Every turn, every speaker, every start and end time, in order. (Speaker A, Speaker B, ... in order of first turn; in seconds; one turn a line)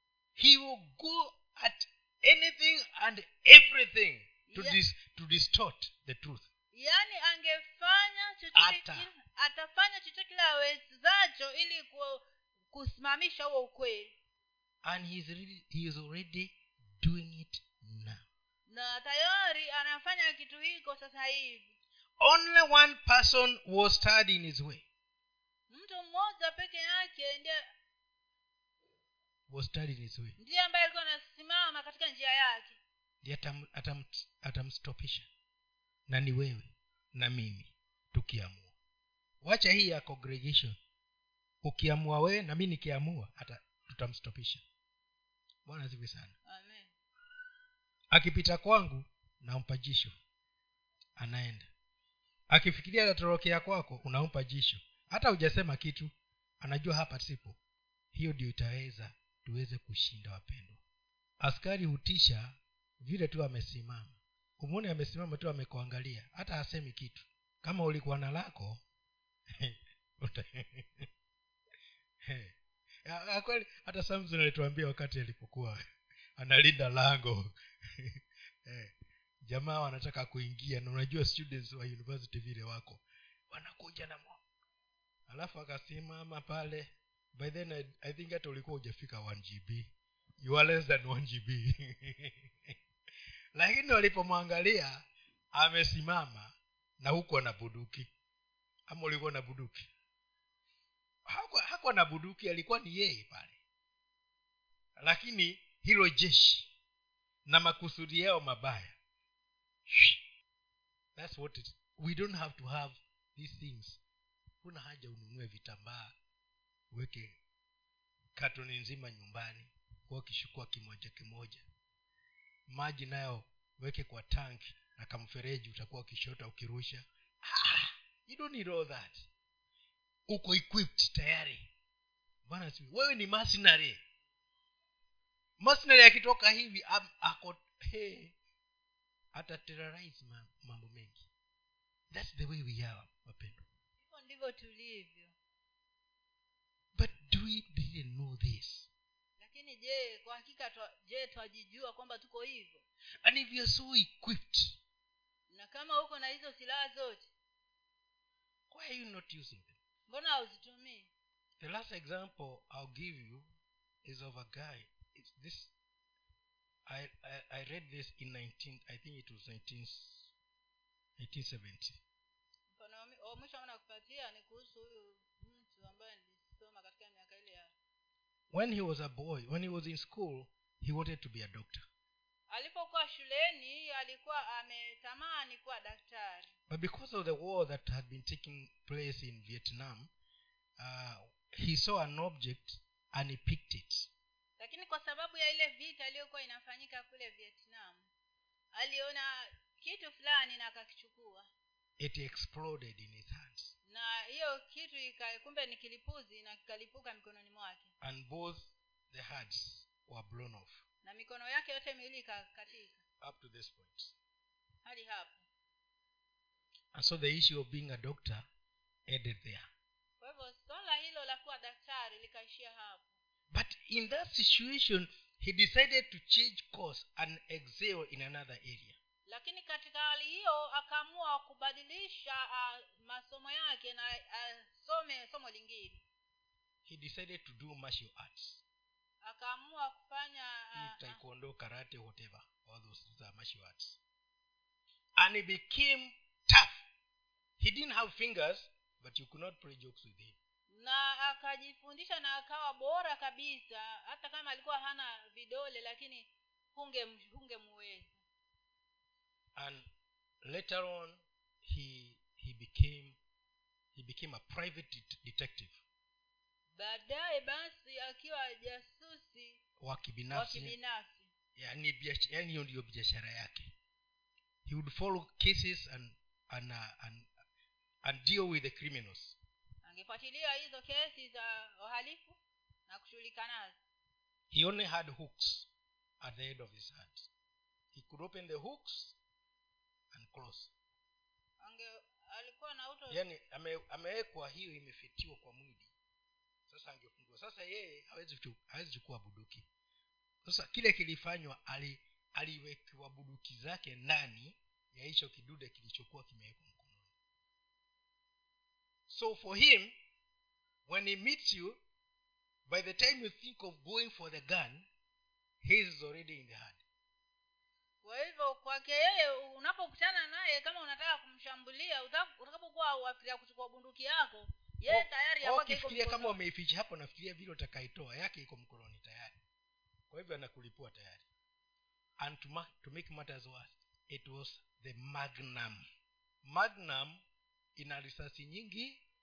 Speaker A: 0.3-6.5
Speaker B: 4.5-4.8
Speaker B: 6.7-14.2
Speaker A: 8.5-9.1
Speaker A: 14.8-18.3
Speaker B: 18.7-21.8
Speaker A: 22.2-24.9
Speaker B: 25.7-27.6
Speaker A: 29.5-30.4
Speaker B: 30.4-32.8
Speaker A: 33.2-35.3
Speaker A: 36.1-38.7
Speaker A: 39.4-40.8
Speaker A: 41.6-44.6
Speaker A: 45.6-46.3
Speaker B: 46.5-46.9
Speaker A: 48.1-50.1
Speaker A: 51.2-51.7
Speaker A: 52.5-57.6
Speaker A: 58.1-60.8
Speaker A: 61.4-68.8
Speaker A: 69.6-71.1
Speaker A: 72.2-75.8
Speaker A: 76.4-78.9
Speaker A: 79.4-84.4
Speaker A: 85.3-92.7
Speaker A: 93.5-98.1
Speaker A: 98.9-99.9
Speaker A: 101.2-103.6
Speaker A: 105.0-106.7
Speaker A: 107.5-109.0
Speaker A: 109.9-110.2
Speaker A: 111.1-114.0
Speaker A: 114.6-116.1
Speaker A: 116.9-117.4
Speaker A: 118.3-121.6
Speaker A: 122.7-129.3
Speaker A: 130.3-131.7
Speaker A: 132.4-134.0
Speaker A: 135.6-138.3
Speaker A: 139.3-141.3
Speaker A: 142.1-143.6
Speaker B: 144.0-145.3
Speaker A: 146.9-148.9
Speaker B: 149.4-152.8
Speaker A: 153.2-154.8
Speaker B: 155.5-157.3
Speaker A: 158.7-159.8
Speaker B: 160.1-161.1
Speaker A: 161.6-163.5
Speaker A: 164.0-165.7
Speaker A: 166.9-170.3
Speaker A: 171.2-172.0
Speaker B: 172.7-177.7
Speaker A: 178.5-181.8
Speaker B: 182.5-186.5
Speaker A: 186.7-190.1
Speaker A: 190.8-194.1
Speaker B: 194.6-198.1
Speaker B: 198.7-201.5
Speaker A: 202.0-203.7
Speaker B: 203.9-207.9
Speaker A: 208.0-210.8
Speaker B: 211.0-213.0
Speaker A: 213.2-214.1
Speaker B: 214.8-215.4
Speaker A: 216.9-218.4
Speaker A: 219.1-219.7
Speaker B: 220.2-223.1
Speaker A: 223.5-229.0
Speaker B: 229.3-236.0
Speaker A: 236.8-238.6
Speaker B: 239.2-241.2
Speaker A: 240.7-244.0
Speaker A: 245.2-246.8
Speaker A: 247.6-250.4
Speaker B: 250.7-258.2
Speaker A: 259.6-259.9
Speaker A: 260.4-263.2
Speaker A: 263.9-265.8
Speaker B: 266.8-269.6
Speaker A: 269.8-270.8
Speaker B: 270.3-271.3
Speaker A: 271.6-273.7
Speaker A: 274.6-277.3
Speaker A: 278.0-279.4
Speaker B: 279.8-283.8
Speaker A: 284.5-285.7
Speaker A: 286.2-287.3
Speaker A: 287.9-289.1
Speaker A: 290.1-290.7
Speaker B: 291.6-293.2
Speaker A: 293.1-295.9
Speaker A: 296.7-299.7
Speaker A: 300.4-307.1
Speaker A: 309.1-309.9
Speaker A: 310.9-311.8
Speaker A: 312.7-314.9
Speaker A: 315.6-316.8
Speaker B: 318.0-326.4
Speaker A: 324.9-329.4
Speaker A: 330.1-331.3
Speaker A: 332.2-335.8
Speaker A: 336.4-337.2
Speaker A: 337.8-339.0